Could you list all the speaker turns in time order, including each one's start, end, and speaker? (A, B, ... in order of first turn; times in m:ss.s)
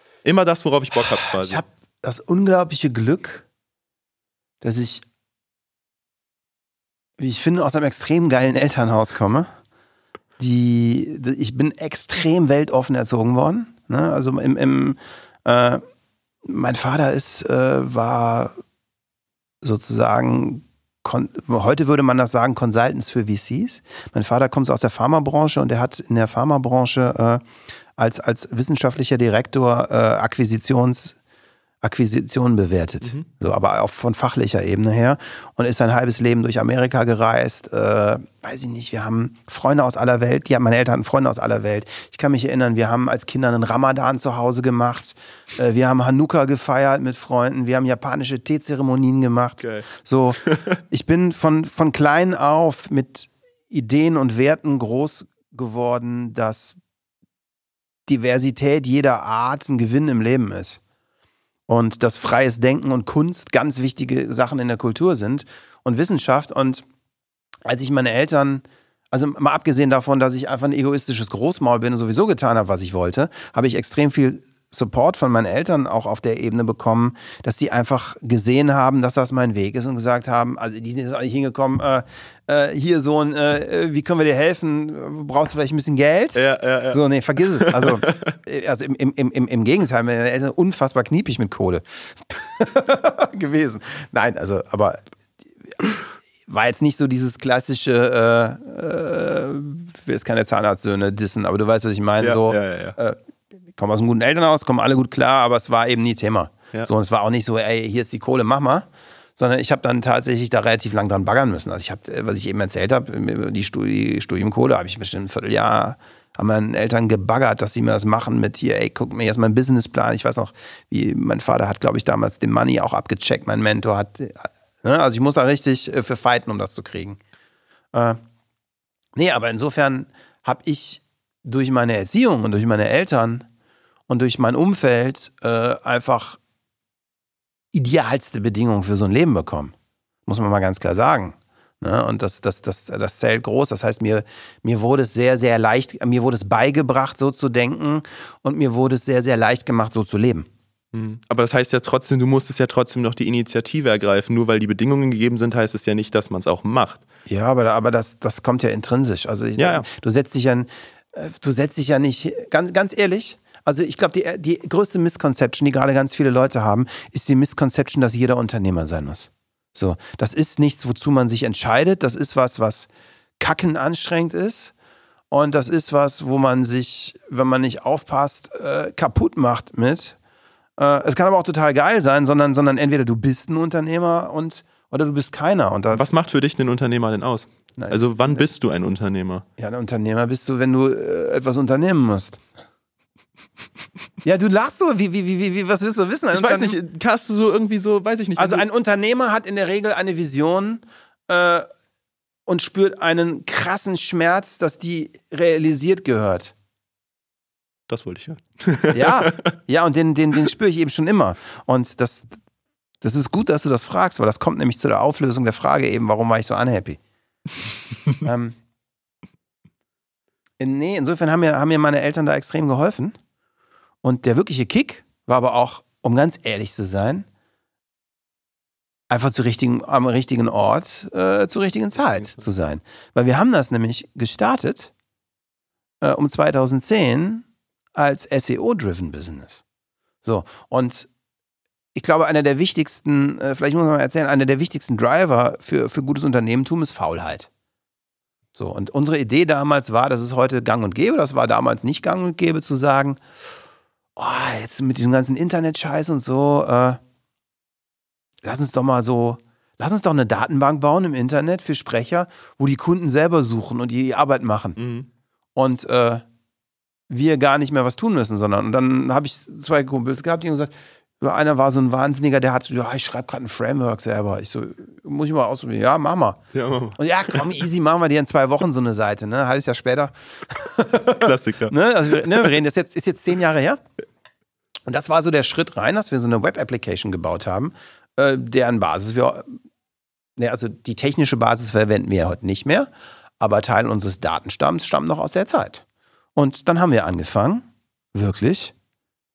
0:00.2-0:01.6 A
0:01.0-0:03.4 B
0:04.6-0:05.0 B
0:07.2-0:09.5 B
0:10.4-0:15.8 B
0:16.4-0:18.5 B
0:19.6-0:27.4 B
0:28.0-0:31.2 B
0:31.8-0:56.8 B
0:49.6-0:49.9 A
0:50.4-0:50.7 A
0:58.1-1:00.8 B
1:01.7-1:06.8 B
1:07.6-1:26.4 B
1:26.4-1:27.0 A
1:26.9-1:35.0 B
1:27.6-1:28.4 A
1:36.5-1:43.2 B
1:42.2-1:43.0 A
1:43.8-2:07.2 B
2:07.9-2:08.2 B
2:09.2-2:13.5 B
2:14.1-2:16.4 B
2:17.7-2:19.7 B
2:20.2-2:30.5 B
2:30.9-2:37.0 A
2:37.3-2:52.9 B
2:39.6-2:39.8 A
2:53.4-2:54.7 B
2:55.3-3:00.2 B
3:00.8-3:06.0 B
3:05.9-3:09.4 A
3:07.8-3:08.5 B
3:09.6-3:12.4 B
3:14.2-3:16.8 B
3:16.3-3:18.6 A
3:18.4-3:21.7 B
3:22.5-3:26.5 B
3:27.9-3:29.5 A
3:28.9-3:32.4 B
3:33.0-3:37.0 B
3:38.2-3:38.6 B
3:40.6-3:43.2 B
3:44.0-3:47.2 B
3:49.1-3:54.9 B
3:56.0-3:59.6 B
4:00.2-4:01.1 B
4:02.0-4:07.5 B
4:08.6-4:13.2 B
4:14.2-4:17.0 B
4:18.4-4:24.8 B
4:24.8-4:25.1 A
4:25.6-4:26.2 B
4:27.1-4:36.4 B
4:36.5-4:37.5 A
4:37.0-4:43.8 B
4:41.1-4:41.7 A
4:44.9-4:49.5 B
4:50.4-4:52.9 B
4:53.4-4:55.8 B
4:56.4-4:58.7 B